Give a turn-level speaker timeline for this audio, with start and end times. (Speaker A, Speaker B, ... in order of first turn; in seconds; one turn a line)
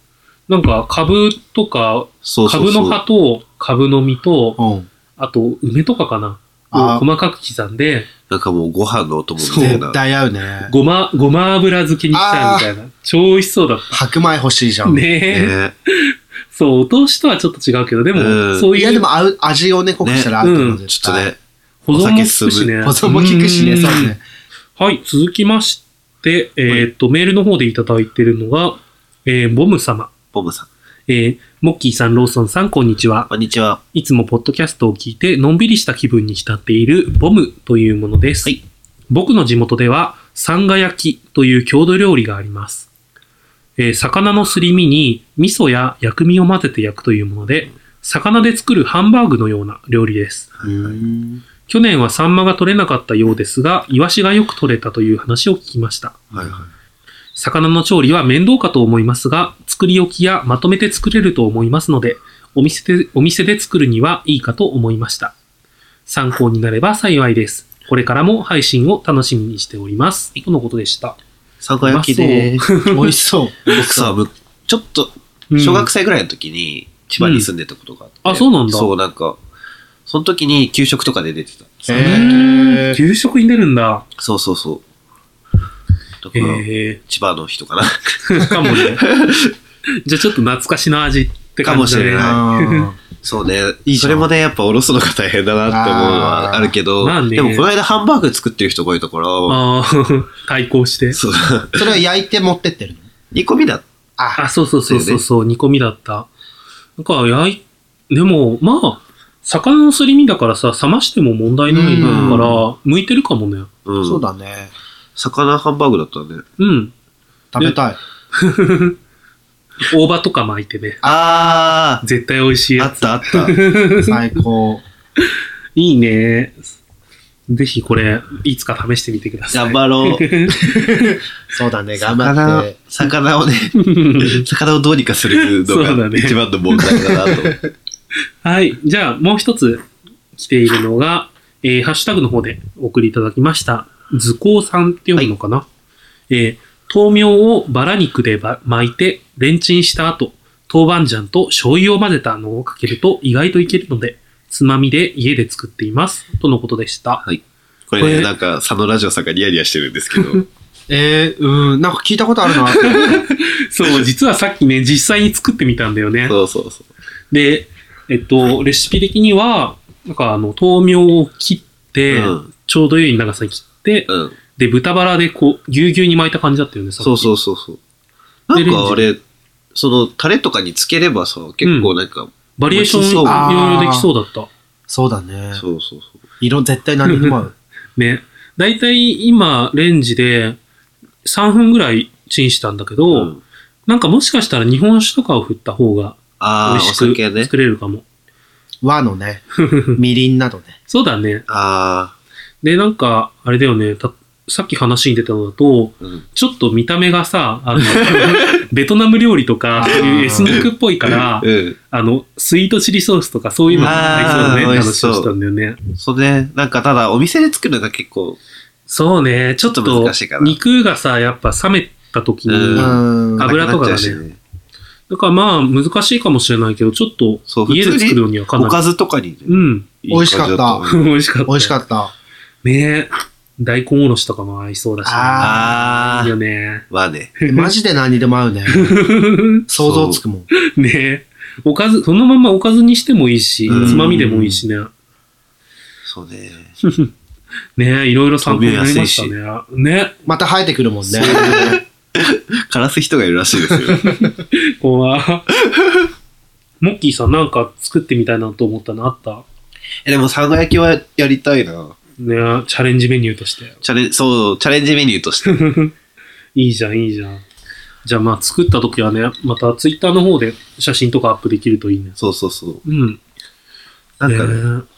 Speaker A: 0.5-4.6
Speaker B: 2.2-3.0
Speaker C: 4.6-4.9
Speaker A: 5.2-8.1
Speaker C: 6.7-7.0
Speaker B: 8.3-10.0
Speaker A: 9.4-9.8
Speaker C: 9.5-10.7
Speaker A: 10.7-14.0
Speaker C: 12.1-12.7
Speaker C: 13.9-15.0
Speaker A: 14.8-19.1
Speaker B: 15.3-15.7
Speaker B: 18.1-18.7
Speaker C: 18.7-21.3
Speaker B: 20.0-20.3
Speaker A: 20.4-20.8
Speaker B: 20.9-21.4
Speaker A: 21.8-24.1
Speaker B: 21.9-22.7
Speaker C: 22.8-24.2
Speaker A: 24.8-30.1
Speaker B: 30.3-30.7
Speaker A: 31.1-33.3
Speaker B: 33.3-33.8
Speaker A: 33.9-38.5
Speaker A: 39.1-42.9
Speaker A: 43.8-50.5
Speaker B: 50.6-51.0
Speaker C: 50.6-51.4
Speaker A: 51.7-56.2
Speaker C: 56.3-56.6
Speaker B: 56.3-56.7
Speaker A: 57.4-65.3
Speaker A: 66.1-71.2
Speaker B: 71.6-72.7
Speaker A: 71.8-73.1
Speaker C: 72.8-74.1
Speaker B: 73.7-79.4
Speaker A: 75.5-75.9
Speaker A: 77.2-77.5
Speaker A: 78.2-78.9
Speaker B: 80.1-82.3
Speaker C: 81.9-83.0
Speaker A: 81.9-84.0
Speaker B: 84.2-84.8
Speaker B: 86.2-89.5
Speaker A: 86.3-87.0
Speaker A: 88.2-89.0
Speaker A: 90.0-92.9
Speaker B: 91.6-92.4
Speaker C: 92.2-93.0
Speaker B: 93.2-99.6
Speaker C: 93.8-94.3
Speaker C: 95.7-96.7
Speaker A: 97.0-97.7
Speaker A: 99.5-101.2
Speaker B: 101.1-102.0
Speaker C: 101.8-103.1
Speaker B: 103.3-103.8
Speaker C: 104.2-104.4
Speaker A: 104.4-106.3
Speaker B: 104.9-105.2
Speaker A: 107.0-113.7
Speaker C: 111.7-112.6
Speaker B: 112.0-112.5
Speaker B: 113.8-114.2
Speaker C: 114.0-114.7
Speaker B: 115.2-116.4
Speaker A: 116.6-116.9
Speaker C: 117.5-118.0
Speaker A: 118.3-119.0
Speaker A: 119.9-121.0
Speaker C: 121.0-121.7
Speaker B: 121.0-122.0
Speaker A: 122.0-124.2
Speaker B: 122.8-123.5
Speaker C: 124.0-124.8
Speaker A: 125.8-126.7
Speaker A: 127.5-131.2
Speaker B: 129.5-130.2
Speaker C: 130.6-132.8
Speaker B: 132.0-137.6
Speaker A: 133.8-134.5
Speaker A: 135.3-137.3
Speaker A: 138.4-139.8
Speaker A: 140.3-145.7
Speaker A: 146.3-157.2
Speaker B: 157.2-160.4
Speaker A: 158.0-158.3
Speaker A: 160.2-160.4
Speaker C: 160.9-163.2
Speaker A: 162.8-166.3
Speaker B: 166.3-166.9
Speaker A: 167.3-177.3
Speaker B: 172.1-172.5
Speaker B: 174.1-174.3
Speaker B: 177.0-177.8
Speaker B: 178.5-179.2
Speaker A: 178.5-179.1
Speaker B: 179.7-183.5
Speaker A: 181.6-181.9
Speaker A: 182.6-184.5
Speaker C: 183.2-184.1
Speaker C: 184.9-185.6
Speaker B: 185.6-186.2
Speaker C: 186.4-187.5
Speaker A: 187.1-187.4
Speaker A: 187.9-190.6
Speaker A: 191.2-193.3
Speaker B: 193.1-193.4
Speaker A: 193.9-198.0
Speaker B: 196.4-197.5
Speaker C: 198.8-199.4
Speaker A: 199.6-200.0
Speaker C: 199.9-200.8
Speaker A: 200.9-201.4
Speaker B: 201.5-202.1
Speaker A: 202.6-215.8
Speaker B: 207.8-208.5
Speaker C: 209.7-210.7
Speaker B: 209.8-211.8
Speaker C: 213.7-214.8
Speaker B: 213.8-215.3
Speaker B: 216.0-218.4
Speaker A: 218.9-224.2
Speaker B: 219.6-220.6
Speaker B: 222.5-224.4
Speaker C: 222.7-223.5
Speaker A: 225.1-228.8
Speaker B: 227.5-231.0
Speaker A: 229.4-229.9
Speaker C: 230.1-230.8
Speaker A: 230.9-231.8
Speaker C: 231.5-232.1
Speaker A: 232.6-236.8
Speaker C: 235.0-235.8
Speaker B: 235.4-236.3
Speaker B: 236.9-237.3
Speaker A: 237.4-237.7
Speaker C: 237.5-239.1
Speaker A: 238.7-239.7
Speaker C: 239.7-240.5
Speaker B: 239.8-240.2
Speaker A: 240.6-244.9
Speaker B: 243.7-244.5
Speaker C: 243.7-244.5
Speaker B: 246.0-246.7
Speaker A: 246.8-247.1
Speaker A: 247.8-250.2
Speaker B: 248.4-249.3
Speaker C: 250.2-251.8
Speaker B: 251.1-254.2
Speaker A: 253.9-255.5
Speaker B: 255.6-256.1
Speaker A: 256.8-259.4
Speaker B: 260.0-261.9
Speaker A: 262.2-263.8
Speaker B: 263.8-265.6
Speaker A: 265.4-265.9
Speaker A: 266.6-267.4
Speaker A: 268.0-272.2
Speaker B: 272.2-272.8
Speaker A: 272.8-273.2
Speaker B: 274.2-274.6
Speaker A: 274.2-274.8